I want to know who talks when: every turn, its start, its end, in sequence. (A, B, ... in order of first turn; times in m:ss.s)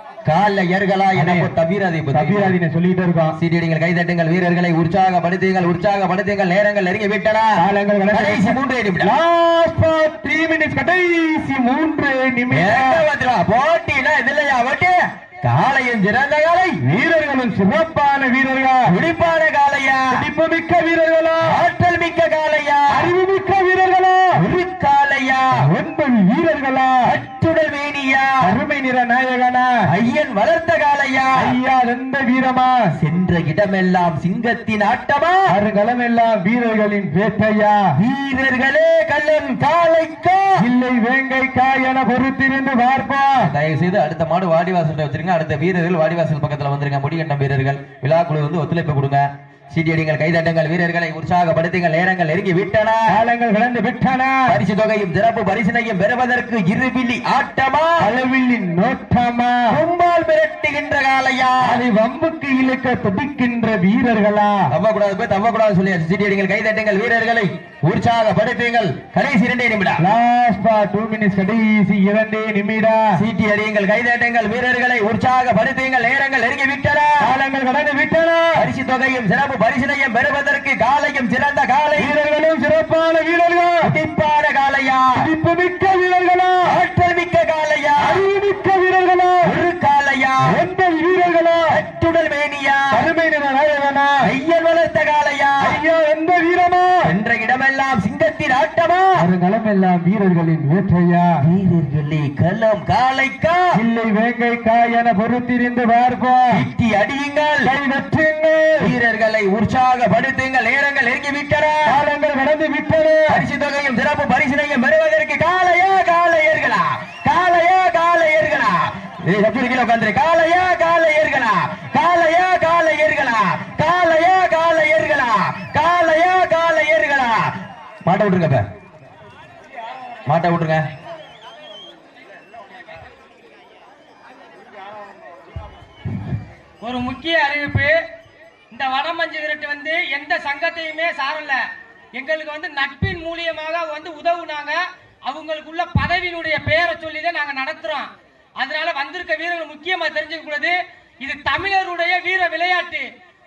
0:00.2-0:02.5 A
0:01.2-0:01.5 B
0:02.1-0:03.4 B
0:03.4-0:07.6 A
0:07.6-0:13.0 B
0:08.1-0:09.1 A
0:12.5-0:16.8 A
0:16.8-0:18.9 B
0:18.9-0:20.2 A
0:20.2-0:21.6 B
0:21.5-0:23.1 A
0:22.9-0:24.4 B
0:24.4-0:25.5 A
0:25.6-0:27.0 B
0:27.0-0:28.5 A
0:28.4-0:29.7 B
0:29.9-0:31.5 A
0:31.4-0:32.9 B
0:33.0-0:35.5 A
0:35.5-0:37.8 B
0:38.0-0:40.6 A
0:40.6-0:43.4 B
0:43.4-0:53.1 A
0:53.1-0:54.6 B
0:54.5-0:57.9 A
0:58.0-0:59.7 B
0:59.7-1:01.8 A
1:01.6-1:04.6 B
1:04.7-1:10.0 A
1:10.0-1:13.0 B
1:13.2-1:17.2 A
1:17.2-1:18.6 B
1:18.6-1:22.1 A
1:22.0-1:23.9 B
1:23.8-1:25.1 A
1:25.2-1:26.7 B
1:26.7-1:28.2 A
1:28.0-1:29.5 B
1:29.4-1:30.5 A
1:30.4-1:31.7 B
1:31.7-1:33.0 A
1:32.9-1:34.1 B
1:34.2-1:35.8 A
1:35.6-1:37.0 B
1:37.0-1:39.2 A
1:39.2-1:41.3 B
1:41.4-1:43.7 A
1:43.7-1:46.5 B
1:46.5-1:47.7 A
1:47.6-1:48.9 B
1:48.8-1:52.0 A
1:51.9-1:53.4 B
1:53.3-2:07.5 A
2:08.0-2:08.6 A
2:10.3-2:10.8 A
2:16.8-2:18.0 C
2:18.7-2:21.6 C
2:22.1-2:33.1 C